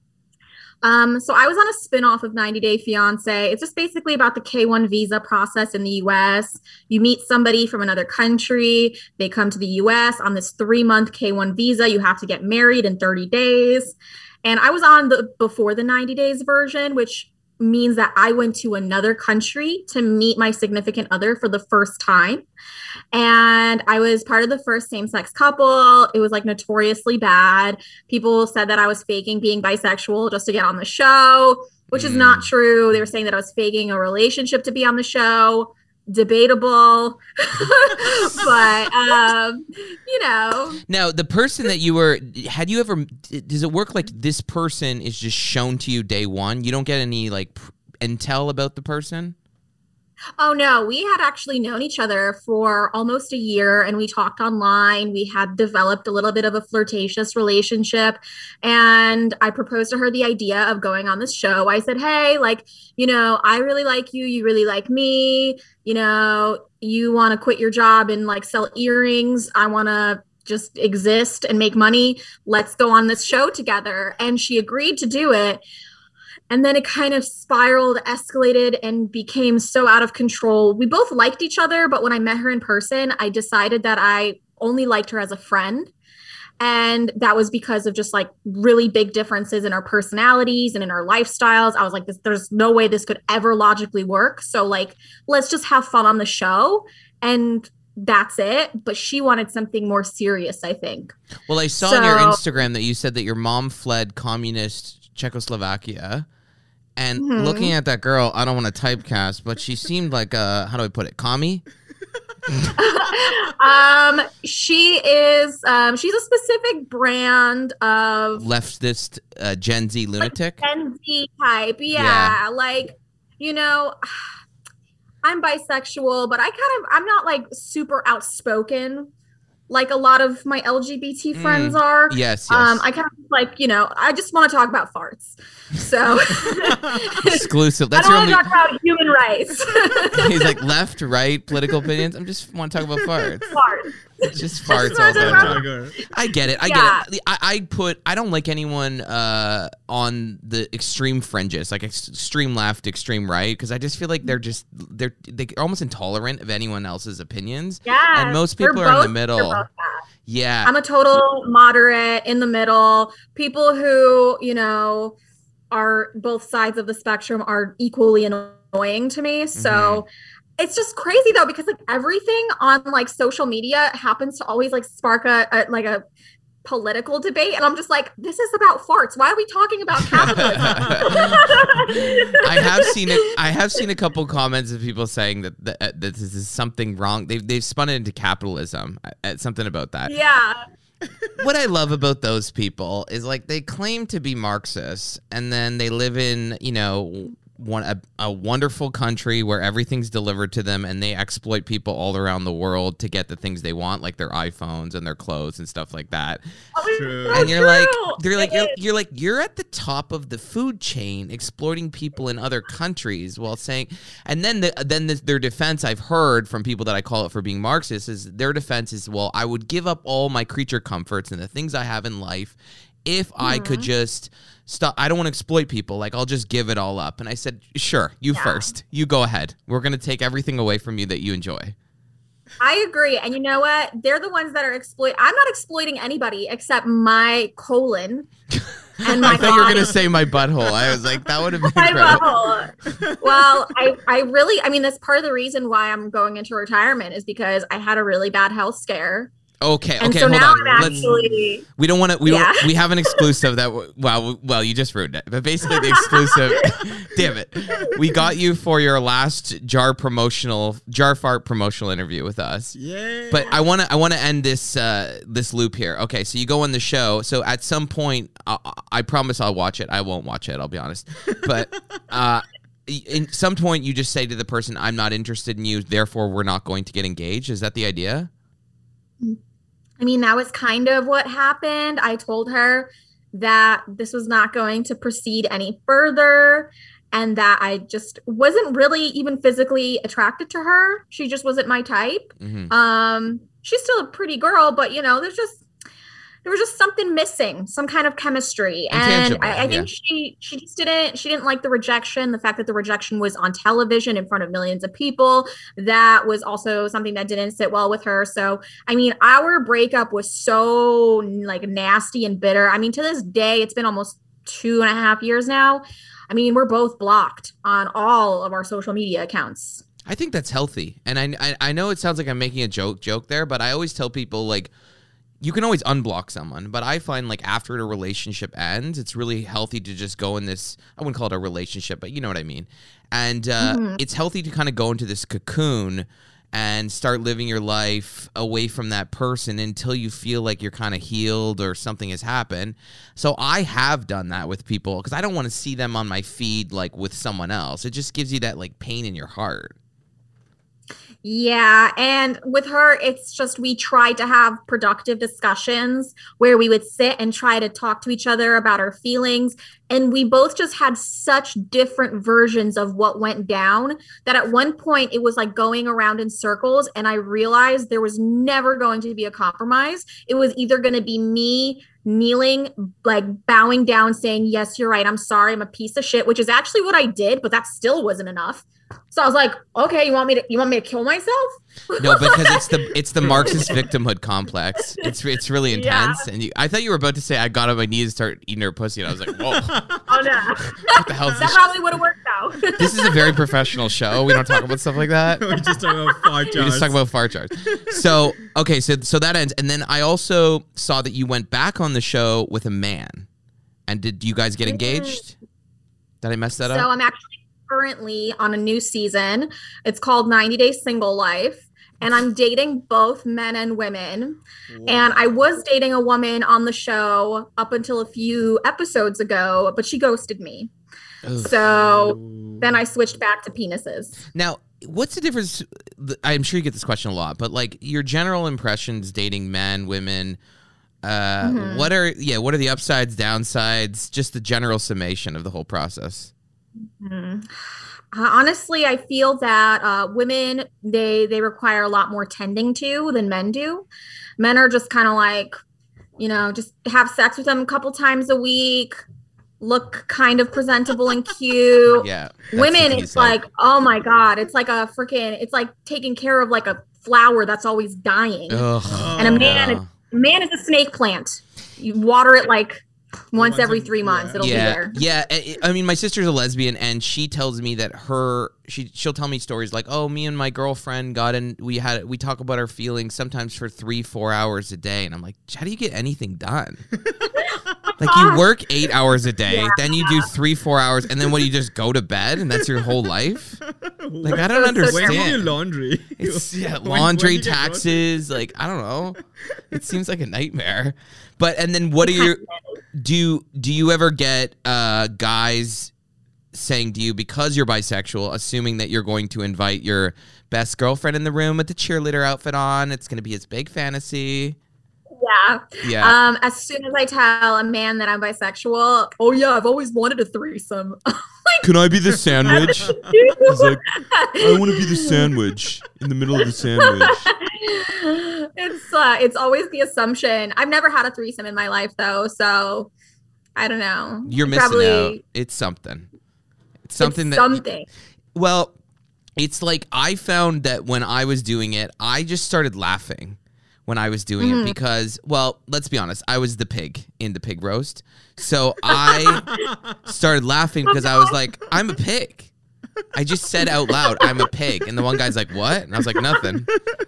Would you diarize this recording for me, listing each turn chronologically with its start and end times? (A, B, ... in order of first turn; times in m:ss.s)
0:00.8-0:22.4 A
0:23.1-0:40.8 A
0:31.9-0:32.5 B
0:40.9-0:49.3 B
0:50.4-1:15.6 A
1:16.5-1:25.9 A
1:26.6-1:41.2 A
1:41.5-1:46.2 B
1:41.7-1:42.4 A
1:47.0-1:51.6 B
1:47.2-1:47.7 A
1:52.8-1:58.5 A
1:58.3-2:00.6 B
2:00.2-2:04.1 A
2:01.9-2:02.4 B
2:05.2-2:09.1 A
2:09.7-2:20.5 A
2:11.3-2:12.8 B
2:16.4-2:17.1 C
2:17.2-2:18.4 B
2:20.1-2:23.6 B
2:23.5-2:25.6 A
2:24.2-2:26.0 C
2:24.3-2:39.6 B
2:26.6-2:27.0 A
2:37.8-2:40.0 A
2:40.2-2:40.7 B
2:40.6-2:45.2 A
2:45.7-2:50.1 A
2:49.5-2:50.0 B
2:50.6-2:56.0 A
2:56.6-3:02.9 A
3:00.0-3:10.1 B
3:00.3-3:01.4 C
3:10.0-3:10.6 A
3:11.4-3:26.4 B
3:26.7-3:28.7 A
3:26.9-3:27.5 C
3:27.3-3:51.7 B
3:43.4-3:43.9 A
3:48.3-3:48.7 A
3:52.6-3:58.3 A
3:58.5-4:02.3 B
3:59.0-3:59.9 A
3:59.1-4:00.0 C
4:01.7-4:09.3 A
4:02.9-4:03.7 C
4:09.6-4:11.1 B
4:10.0-4:11.6 A
4:11.7-4:22.8 B
4:12.2-4:12.7 A
4:22.7-4:23.5 C
4:23.3-4:38.3 B
4:40.0-4:55.6 A
4:52.4-4:52.7 B
4:56.4-5:19.8 A
4:58.9-4:59.9 B
5:20.0-5:24.7 B
5:25.4-5:49.7 B
5:33.6-5:34.0 A
5:51.2-6:22.6 A
6:22.0-6:29.8 B
6:23.2-6:23.8 C
6:23.4-6:23.8 A
6:25.7-6:26.2 A
6:29.4-6:30.0 C
6:30.1-6:33.4 A
6:30.8-6:31.7 B
6:32.8-6:35.4 B
6:35.4-6:37.0 C
6:35.6-6:36.2 A
6:36.6-6:43.3 B
6:37.9-6:38.2 C
6:43.9-6:45.4 B
6:44.7-6:45.2 A
6:46.2-6:46.9 B
6:46.6-7:00.7 A
6:54.7-6:55.3 C
7:01.2-7:01.6 B
7:01.4-7:04.2 A
7:01.6-7:02.8 C
7:04.3-7:10.4 B
7:11.0-7:16.3 B
7:11.4-7:11.9 A
7:17.0-7:17.6 A
7:18.1-7:23.8 A
7:24.4-7:25.6 A
7:26.2-7:29.0 A
7:29.6-7:45.0 A
7:31.9-7:33.4 B
7:38.5-7:39.9 B
7:38.9-7:39.7 C
7:43.3-7:44.7 C
7:44.4-7:56.8 B
7:57.0-7:57.3 C
7:58.0-8:03.6 B
7:58.0-7:58.4 A
7:59.5-8:00.2 A
8:03.7-8:08.1 C
8:04.2-8:05.5 B
8:04.3-8:05.3 A
8:06.2-8:09.2 B
8:09.7-8:12.4 B
8:12.0-8:12.6 A
8:12.9-8:15.9 B
8:16.5-8:24.6 B
8:25.2-8:31.6 A
8:25.8-8:26.2 B
8:31.6-8:32.9 B
8:32.4-8:35.3 A
8:33.4-8:33.8 B
8:34.3-8:37.3 B
8:36.8-8:42.9 A
8:43.6-8:45.2 A
8:44.2-8:46.1 B
8:46.8-8:47.6 B
8:47.0-8:47.9 A
8:48.3-8:48.7 B
8:49.4-8:59.5 B
8:54.4-8:54.8 A
9:00.0-9:02.5 B
9:00.9-9:01.3 A
9:03.1-9:06.7 B
9:06.7-9:07.0 C